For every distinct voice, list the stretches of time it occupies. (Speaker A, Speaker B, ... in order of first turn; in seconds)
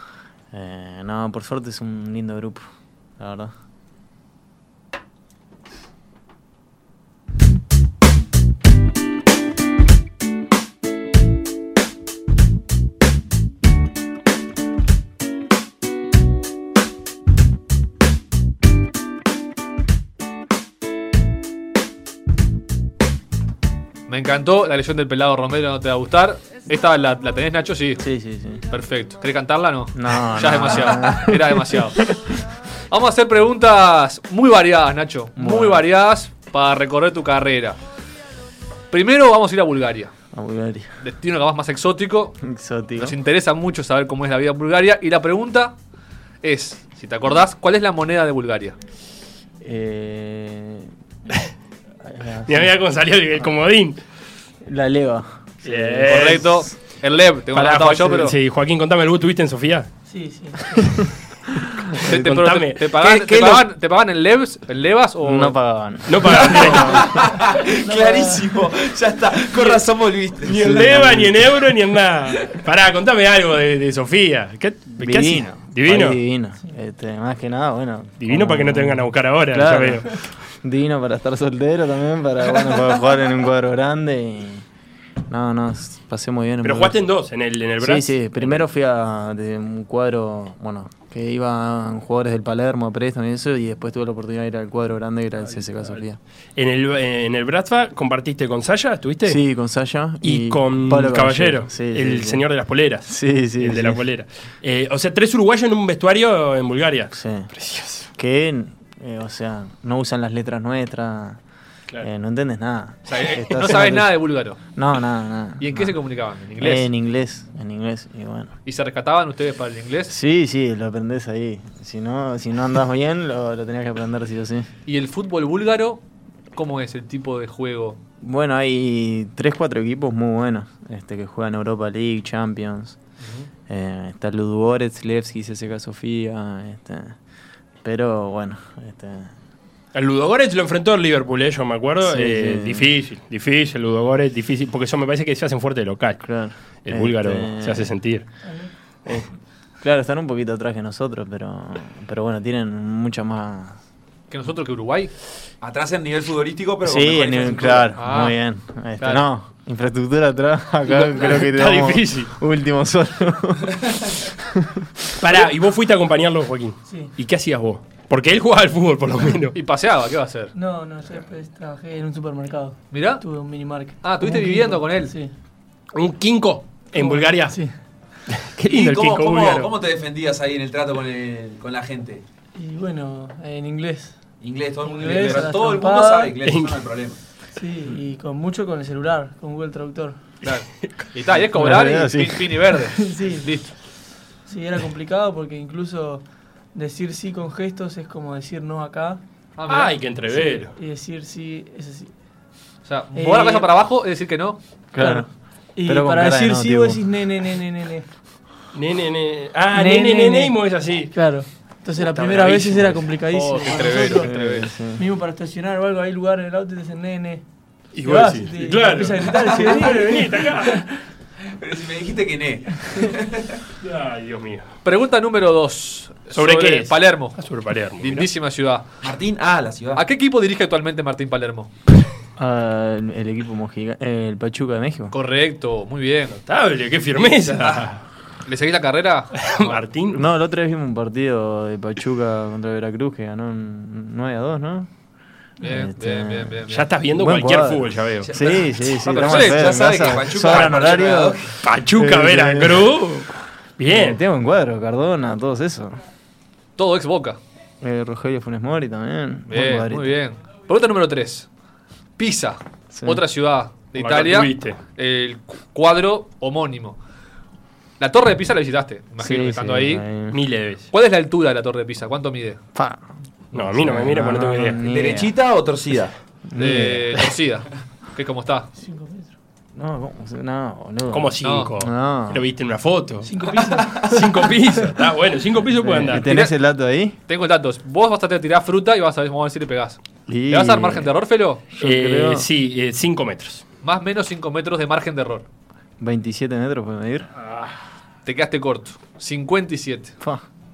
Speaker A: 0.5-2.6, 3.2-3.5, 28.0-28.6, 29.9-32.2, 35.4-35.8, 40.3-41.0, 42.4-43.2, 49.6-50.9, 52.0-52.8, 54.6-56.4, 65.2-67.4, 70.6-71.5, 75.0-84.7, 85.3-87.0, 87.8-96.2, 99.2-102.5, 103.1-104.0, 107.1-107.5, 108.2-111.4, 112.0-114.2, 114.8-116.0, 116.6-118.5, 120.1-124.7, 128.2-133.0, 133.7-137.2, 137.8-139.3, 142.0-142.9, 146.2-147.9, 149.1-153.8, 156.8-164.9, 191.5-192.8, 204.9-205.3, 205.8-207.1, 212.1-212.9, 214.1-215.1, 232.4-235.1, 240.1-244.9, 245.6-253.2, 253.9-256.0, 257.8-260.1, 262.9-263.2, 269.2-270.4, 272.8-275.4, 276.5-277.3, 279.8-282.4, 285.8-287.2, 290.3-291.1, 291.7-292.5, 296.0-297.3, 300.2-300.4
Speaker B: 24.1-28.0, 28.7-32.0, 32.9-37.8, 38.9-40.1, 41.0-42.4, 43.0-45.8, 46.4-48.8, 56.0-58.4, 62.0-65.6, 113.1-114.6, 115.6-116.9, 118.7-120.2, 124.9-126.0, 126.5-128.0, 133.2-133.5, 154.3-155.1, 158.0-158.4, 159.0-159.3, 169.5-170.5, 172.9-173.2, 174.0-175.1, 190.4-193.7, 199.6-200.0, 202.8-204.6, 213.2-214.7, 224.8-227.4, 228.0-228.9, 229.9-231.7, 235.1-236.4, 238.4-239.8, 245.6-246.9, 249.0-249.9, 256.8-257.4, 259.5-261.5, 262.2-267.0, 268.0-270.1, 270.9-272.6, 276.6-278.7, 281.4-281.7, 286.1-286.5, 287.3-291.6, 293.8-295.5, 298.3-300.1
Speaker C: 52.5-54.0, 55.6-56.5, 57.5-59.9, 61.9-63.6, 66.1-67.2, 70.5-76.2, 78.2-80.2, 86.6-88.6, 96.6-99.4, 100.2-108.1, 139.9-146.2, 146.8-148.2, 161.0-162.3, 165.2-169.6, 175.9-177.6, 178.3-179.7, 186.4-186.7, 199.7-200.7, 208.8-211.1, 212.5-212.7, 217.9-220.9, 223.8-224.7, 226.3-228.3, 236.4-238.0, 239.4-240.2, 246.7-248.4, 251.6-254.2, 264.0-264.8, 270.3-270.9, 273.5-274.8, 281.1-283.3, 284.0-286.3, 291.8-293.6, 297.4-297.7
Speaker D: 60.1-61.1, 67.6-68.6, 148.4-148.7, 166.9-167.1, 170.6-175.3, 177.0-177.7, 182.6-184.2, 184.8-186.4, 187.6-190.2, 192.9-193.5, 194.5-199.2, 200.3-202.1, 203.2-203.7, 205.0-208.1, 209.7-210.5, 211.1-214.3, 215.0-217.4, 218.0-220.8, 278.8-279.3, 283.3-284.6
Speaker E: 66.3-71.2, 155.6-157.9, 178.7-182.2, 184.4-187.2, 219.4-219.7, 221.4-223.6, 229.0-230.0, 248.2-251.5, 274.9-276.1